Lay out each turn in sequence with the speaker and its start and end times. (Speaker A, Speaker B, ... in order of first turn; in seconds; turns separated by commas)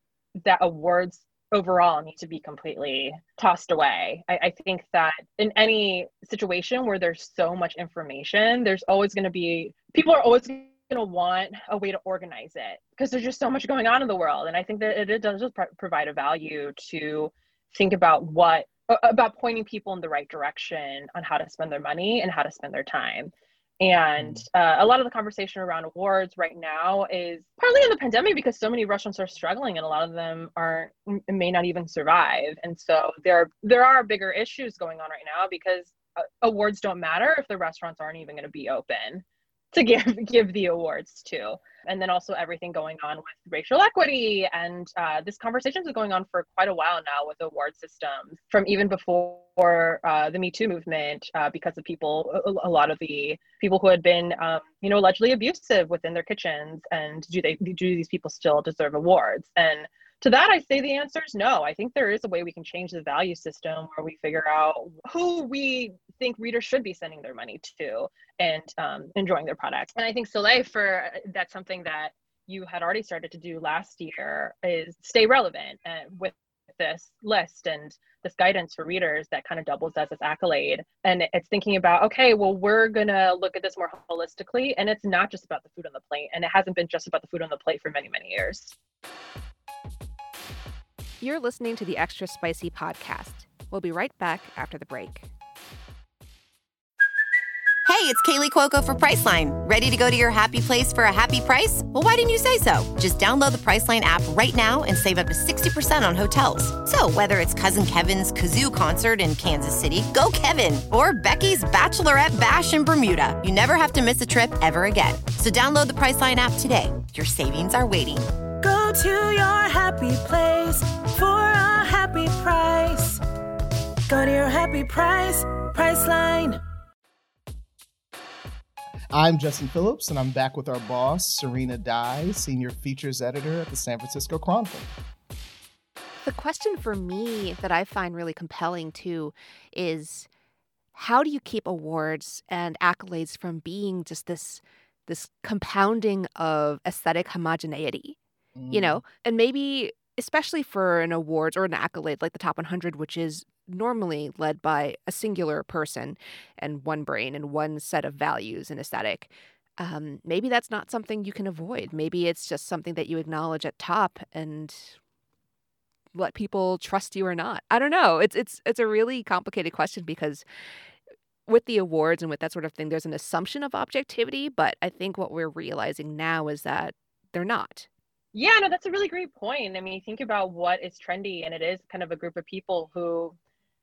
Speaker A: 0.4-88.7, Speaker B: 24.2-24.4, Speaker C: 91.2-95.3, Speaker D: 97.9-118.3, Speaker E: 118.6-123.2, Speaker E: 124.1-126.6, Speaker B: 129.1-134.9, Speaker C: 136.2-140.3, Speaker C: 140.9-148.2, Speaker B: 148.6-149.0, Speaker C: 148.7-165.0, Speaker C: 166.1-170.4, Speaker C: 171.5-177.9, Speaker A: 178.3-183.3